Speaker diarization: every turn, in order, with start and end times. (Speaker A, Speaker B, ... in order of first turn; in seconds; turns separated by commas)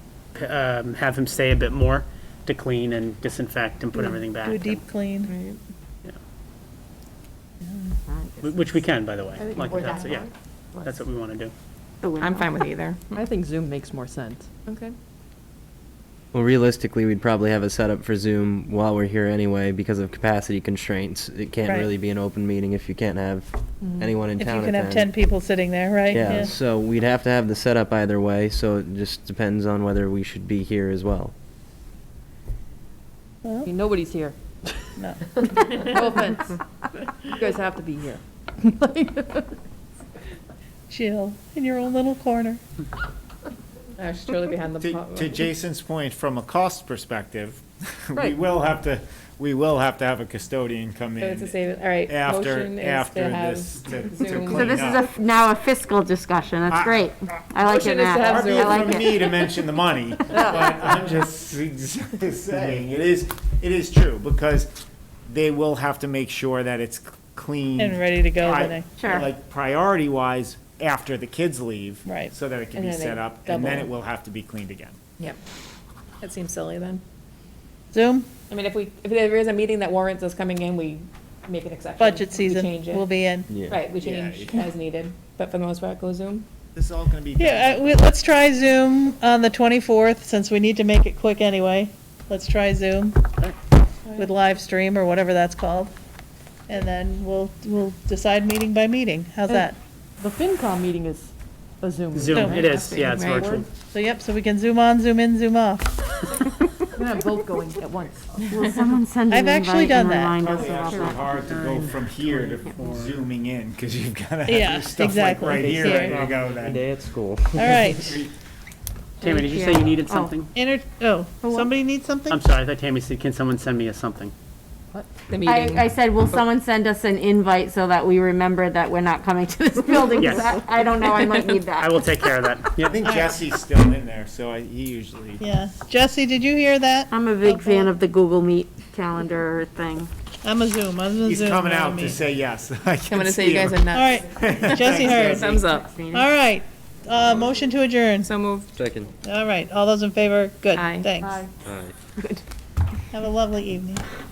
Speaker A: 0.3-4.8, Speaker B: 3.9-5.3, Speaker B: 7.6-7.9, Speaker A: 8.4-11.5, Speaker C: 9.4-10.3, Speaker D: 12.0-12.5, Speaker E: 12.2-13.1, Speaker C: 13.1-14.7, Speaker F: 16.3-25.1, Speaker C: 23.8-24.1, Speaker B: 24.4-26.5, Speaker F: 26.1-31.3, Speaker B: 33.4-33.7, Speaker C: 33.7-34.4, Speaker B: 35.0-35.2, Speaker C: 35.5-36.6, Speaker C: 37.3-39.5, Speaker B: 40.9-42.6, Speaker E: 44.0-45.4, Speaker G: 44.8-55.1, Speaker E: 51.2-54.6, Speaker D: 54.5-59.4, Speaker G: 56.7-64.7, Speaker E: 57.7-58.6, Speaker G: 65.3-75.0, Speaker B: 67.8-68.9, Speaker D: 69.0-69.3, Speaker B: 72.0-72.3, Speaker E: 72.8-73.9, Speaker E: 76.2-77.0, Speaker B: 77.9-78.3, Speaker E: 78.5-83.0, Speaker B: 82.0-83.6, Speaker F: 83.5-83.8, Speaker E: 83.7-86.5, Speaker G: 83.9-84.7, Speaker G: 86.8-88.1, Speaker B: 87.4-93.2, Speaker B: 94.2-95.9, Speaker B: 96.7-99.8, Speaker C: 99.5-103.7, Speaker A: 102.1-103.7, Speaker B: 102.3-102.9, Speaker E: 102.9-103.4, Speaker B: 103.8-106.1, Speaker C: 107.0-108.5, Speaker D: 108.5-111.3, Speaker B: 109.3-110.4, Speaker G: 110.3-116.8, Speaker A: 111.2-113.2, Speaker B: 114.5-116.2, Speaker F: 115.6-117.8, Speaker B: 117.5-118.2, Speaker G: 118.0-118.3, Speaker D: 119.2-120.3, Speaker A: 119.2-120.5, Speaker B: 120.5-122.4, Speaker D: 121.4-121.7, Speaker A: 122.3-124.3, Speaker C: 124.9-125.2, Speaker E: 125.3-126.4, Speaker D: 125.4-132.1, Speaker A: 130.2-130.6, Speaker A: 131.8-132.9, Speaker G: 132.8-135.4, Speaker B: 133.0-133.4, Speaker B: 135.4-137.9, Speaker D: 137.1-140.1, Speaker B: 140.4-142.2, Speaker G: 141.2-145.5, Speaker E: 143.1-144.0, Speaker B: 143.9-145.4, Speaker E: 144.7-145.9, Speaker D: 145.2-146.3, Speaker B: 146.1-148.3, Speaker E: 148.3-148.7, Speaker F: 148.8-149.1, Speaker B: 149.2-151.4, Speaker E: 150.8-151.1, Speaker C: 151.2-151.5, Speaker F: 151.7-151.9, Speaker B: 153.1-154.0